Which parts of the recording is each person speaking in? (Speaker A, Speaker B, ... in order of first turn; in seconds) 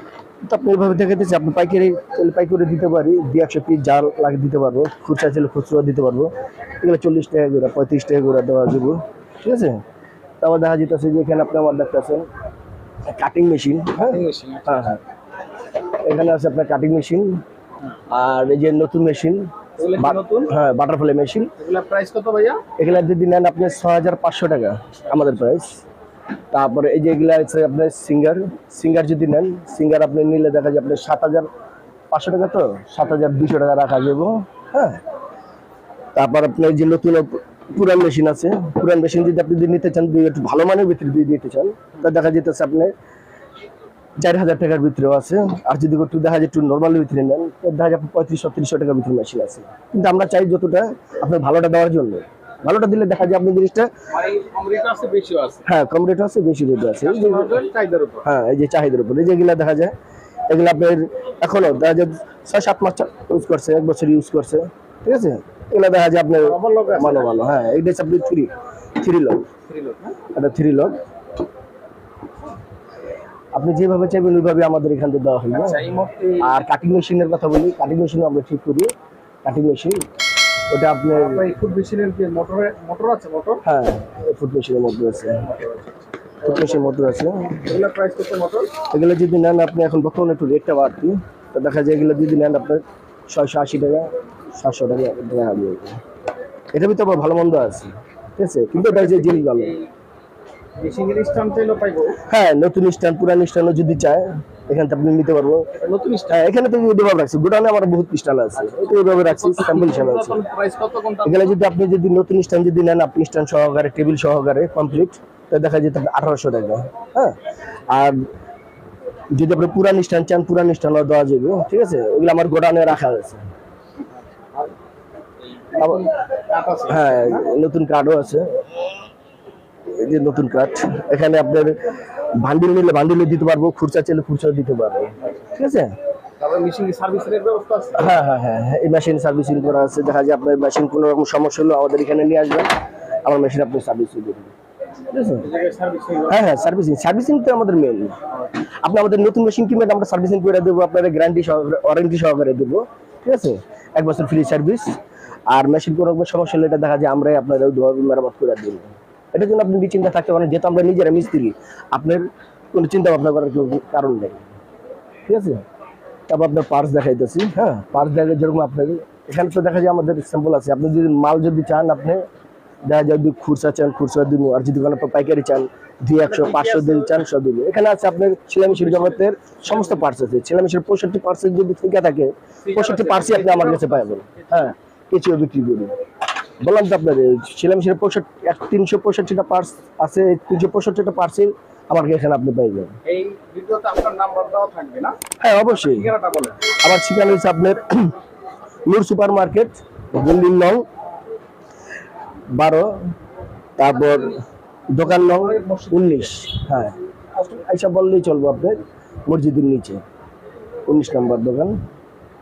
Speaker A: 0.4-9.8, 10.4-12.3, 13.1-15.0, 16.0-17.4, 18.1-21.5, 22.8-25.8, 26.5-31.5, 32.1-35.0, 36.2-42.9, 44.2-53.9, 55.7-57.6, 58.2-59.9, 60.5-69.4, 70.3-70.9, 73.5-75.8, 76.4-78.9, 79.4-80.0, 80.7-81.4, 83.6-85.5, 86.4-87.7, 88.9-96.0, 96.7-99.8, 102.3-105.7, 106.3-110.4, 111.2-117.4, 117.9-118.2, 119.3-123.4, 125.8-126.1, 126.9-128.8, 129.9-131.8, 132.3-135.9, 138.0-142.7, 143.2-144.5, 145.1-145.5, 146.3-148.2, 148.8-154.9, 155.5-164.4, 165.3-165.6, 166.3-172.2, 172.9-185.9, 186.6-192.9, 195.4-196.1, 196.8-198.1, 198.9-200.8, 202.5-203.1, 203.8-204.4, 204.9-210.0, 210.9-211.8
Speaker B: 14.0-14.9, 19.8-20.5, 21.6-22.6, 54.1-55.6, 57.0-58.2, 66.4-67.3, 69.7-70.1, 75.5-76.6, 81.1-83.6, 85.5-85.8, 87.6-88.7, 98.7-99.9, 100.8-102.2, 105.8-106.4, 108.7-111.6, 125.7-127.4, 136.4-138.1, 145.4-146.5, 176.2-177.2, 178.7-180.0, 182.6-184.7, 193.1-195.2, 195.8-196.6, 205.0-206.3